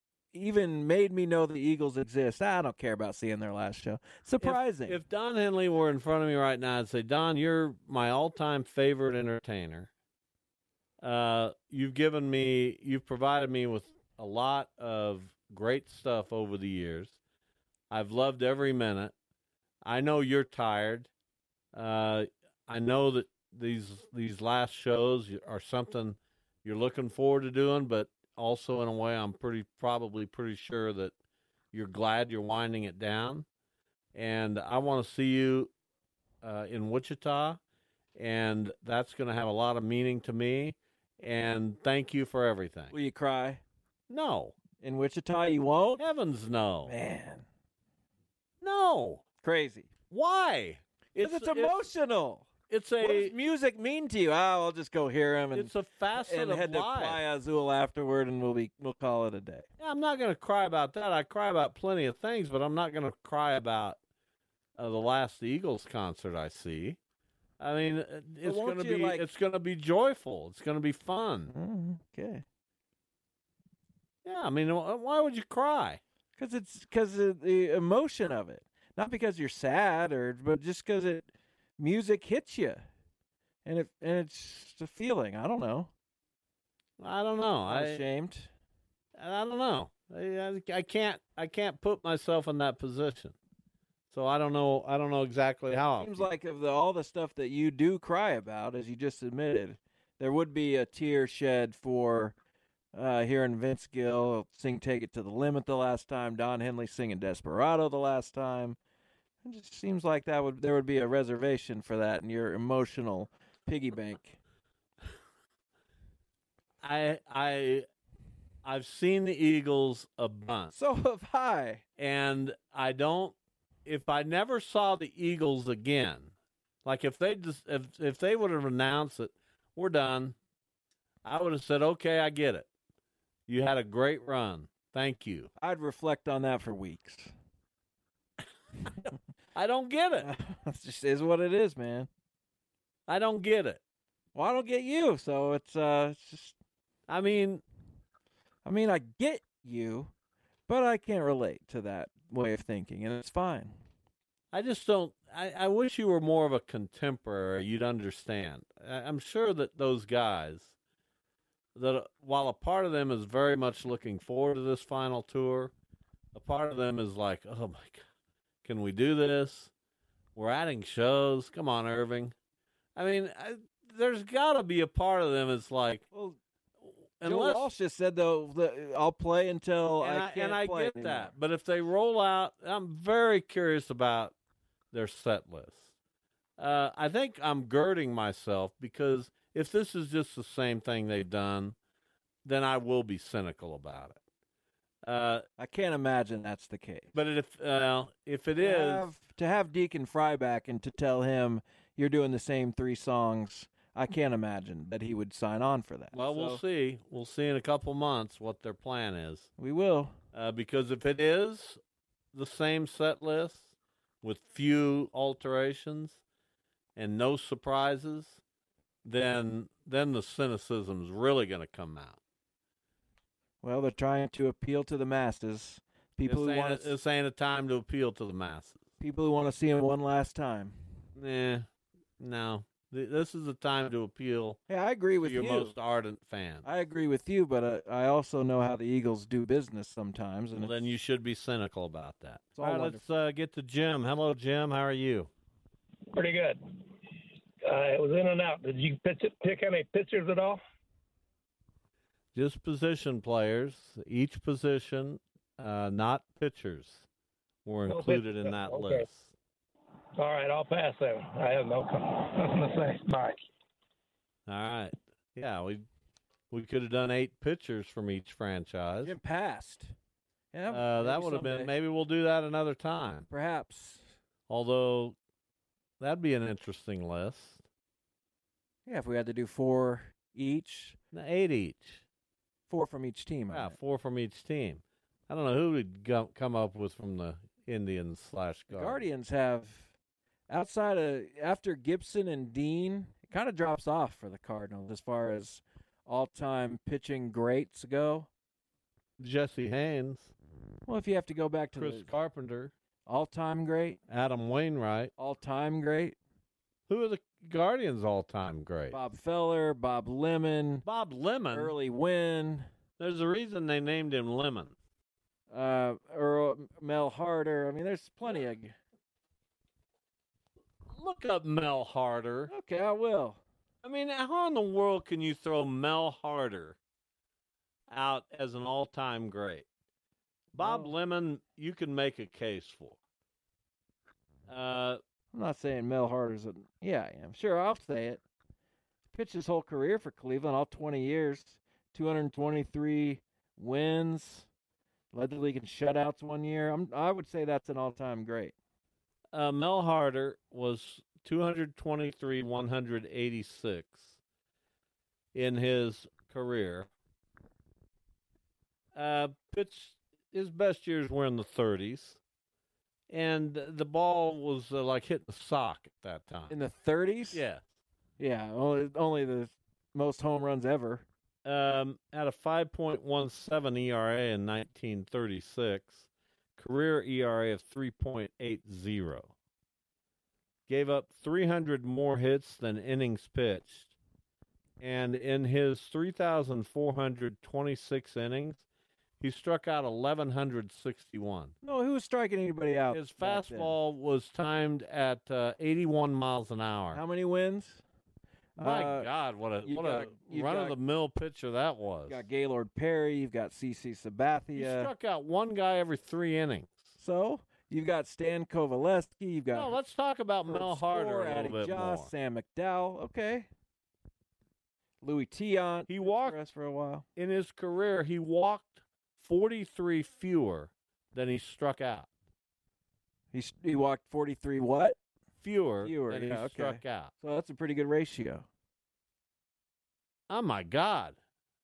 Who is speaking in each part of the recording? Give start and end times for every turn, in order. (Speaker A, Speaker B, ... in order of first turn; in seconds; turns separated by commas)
Speaker A: 0.3-5.0, Speaker B: 4.4-9.9, Speaker B: 11.0-17.2, Speaker B: 17.9-19.1, Speaker B: 19.8-21.1, Speaker B: 21.7-31.1, Speaker B: 31.7-33.4, Speaker B: 34.1-35.7, Speaker B: 36.4-37.6, Speaker B: 38.1-42.9, Speaker A: 42.9-43.6, Speaker B: 44.1-44.5, Speaker A: 44.8-46.0, Speaker B: 46.0-46.9, Speaker A: 46.9-47.4, Speaker B: 48.6-49.2, Speaker A: 49.4-49.9, Speaker B: 50.1-51.8, Speaker A: 51.2-52.5, Speaker B: 52.7-53.3, Speaker A: 53.0-59.6, Speaker B: 55.5-57.2, Speaker B: 59.8-64.0, Speaker B: 64.8-67.0, Speaker B: 67.6-71.5, Speaker A: 68.4-69.2, Speaker A: 71.5-72.4, Speaker B: 74.2-76.0, Speaker A: 76.4-81.3, Speaker A: 81.8-82.8, Speaker A: 83.6-85.9, Speaker B: 87.0-88.0, Speaker A: 87.7-88.5, Speaker B: 89.2-93.3, Speaker B: 94.1-96.2, Speaker A: 96.0-102.3, Speaker A: 102.9-108.8, Speaker A: 109.4-114.4, Speaker B: 116.8-117.8, Speaker B: 118.6-120.7, Speaker A: 120.7-121.8, Speaker B: 122.0-126.3, Speaker B: 126.8-130.3, Speaker B: 131.2-132.7, Speaker B: 133.5-135.5, Speaker A: 135.6-137.3, Speaker B: 139.5-140.3, Speaker A: 140.2-142.1, Speaker B: 143.1-143.8, Speaker A: 144.3-146.5, Speaker B: 147.1-147.6, Speaker A: 148.6-150.1, Speaker A: 150.7-153.8, Speaker B: 154.5-160.7, Speaker B: 161.7-165.7, Speaker B: 166.3-168.0, Speaker B: 168.6-169.7, Speaker B: 170.3-172.3, Speaker B: 172.9-176.0, Speaker A: 176.1-176.4, Speaker B: 177.2-177.7, Speaker A: 177.2-181.3, Speaker B: 180.0-184.3, Speaker B: 184.9-185.9, Speaker B: 186.6-191.7, Speaker B: 192.4-194.2, Speaker B: 195.0-195.4, Speaker A: 195.6-197.1, Speaker B: 197.1-199.1, Speaker A: 198.6-206.6, Speaker B: 206.1-209.5, Speaker A: 209.6-210.1, Speaker B: 210.3-211.8, Speaker B: 212.3-213.7, Speaker B: 214.2-216.2, Speaker B: 216.9-218.4, Speaker B: 219.0-222.2, Speaker A: 223.6-226.9, Speaker B: 226.2-228.8, Speaker A: 229.0-230.8, Speaker B: 231.2-231.7, Speaker B: 232.2-234.6, Speaker A: 234.7-235.7, Speaker B: 235.2-236.7, Speaker A: 236.6-240.9, Speaker B: 240.6-245.3, Speaker A: 242.6-243.0, Speaker C: 246.1-246.9, Speaker C: 247.7-250.6, Speaker B: 252.3-257.1, Speaker B: 257.6-259.3, Speaker C: 257.9-259.1, Speaker C: 260.2-263.4, Speaker B: 264.5-265.8, Speaker B: 266.5-269.1, Speaker A: 269.0-269.9, Speaker A: 270.5-271.7, Speaker B: 270.7-273.3, Speaker A: 273.3-274.1, Speaker B: 274.5-275.1, Speaker B: 276.0-277.6, Speaker A: 278.9-281.0, Speaker B: 281.1-282.0, Speaker A: 282.7-283.8, Speaker B: 283.5-289.0, Speaker A: 288.7-289.9, Speaker A: 290.5-298.3, Speaker B: 299.2-300.3, Speaker A: 300.9-302.1, Speaker B: 301.8-302.7, Speaker A: 303.1-304.0, Speaker B: 304.1-305.1, Speaker A: 305.2-306.1, Speaker B: 306.9-309.0, Speaker A: 308.9-310.8, Speaker B: 310.9-311.7, Speaker A: 311.5-312.7, Speaker B: 313.0-314.7, Speaker A: 315.5-318.7, Speaker B: 320.9-322.5, Speaker A: 322.5-323.4, Speaker B: 323.8-326.8, Speaker B: 327.9-329.6, Speaker B: 330.5-333.0, Speaker A: 330.6-330.9, Speaker B: 334.5-335.0, Speaker A: 335.3-338.2, Speaker A: 339.1-344.5, Speaker A: 345.1-348.5, Speaker B: 349.3-354.1, Speaker B: 355.3-356.9, Speaker B: 358.9-362.2, Speaker B: 363.1-366.5, Speaker A: 366.5-367.4, Speaker B: 367.3-367.6, Speaker A: 368.2-371.0, Speaker B: 371.4-379.3, Speaker B: 380.7-383.9, Speaker B: 384.8-388.6, Speaker B: 389.2-391.5, Speaker A: 391.6-393.8, Speaker B: 392.9-397.0, Speaker A: 396.9-397.8, Speaker A: 398.6-399.1, Speaker B: 398.6-402.2, Speaker A: 399.6-400.7, Speaker A: 402.1-404.9, Speaker B: 404.6-406.9, Speaker A: 407.0-409.7, Speaker B: 409.5-412.1, Speaker A: 410.5-413.5, Speaker A: 415.0-417.0, Speaker B: 415.9-416.4, Speaker B: 417.1-422.1, Speaker A: 423.3-425.0, Speaker B: 425.4-427.1, Speaker A: 425.8-428.4, Speaker B: 430.3-431.1